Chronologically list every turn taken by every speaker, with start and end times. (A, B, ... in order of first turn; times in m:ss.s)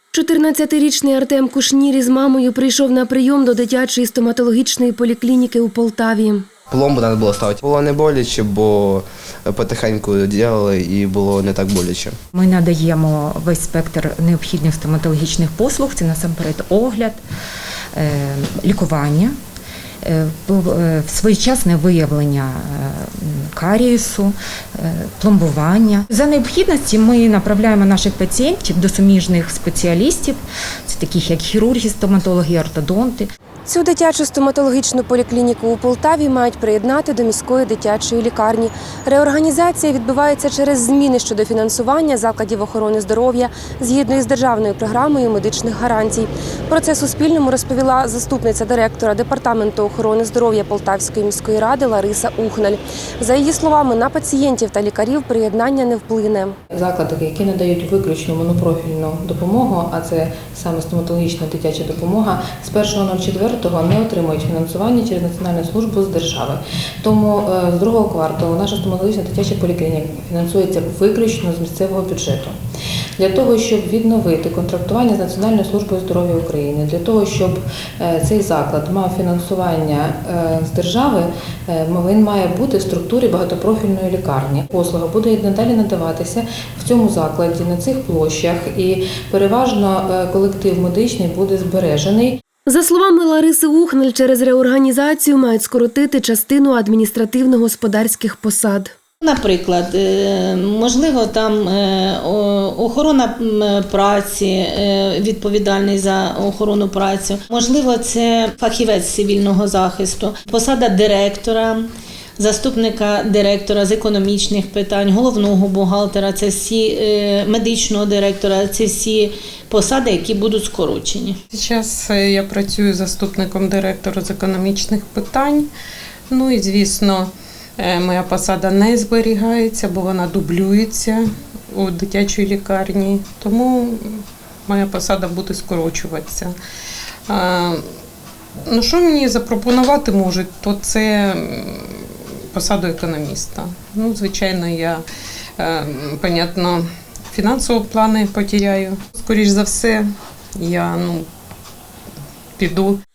0:00.1-0:06.5 A
0:06.7-0:12.2 B
0:12.3-0:17.2 C
0:17.9-0:19.4 C
0:20.0-0:33.3 C
0:33.6-0:56.6 A
0:56.7-1:12.6 D
1:13.2-1:32.4 D
1:32.7-1:38.9 A
1:39.2-2:01.4 E
2:01.5-2:05.7 F
2:06.3-2:16.5 F
2:17.3-2:17.8 F
2:18.7-2:25.0 F
2:25.6-2:31.3 F
2:32.6-2:33.0 F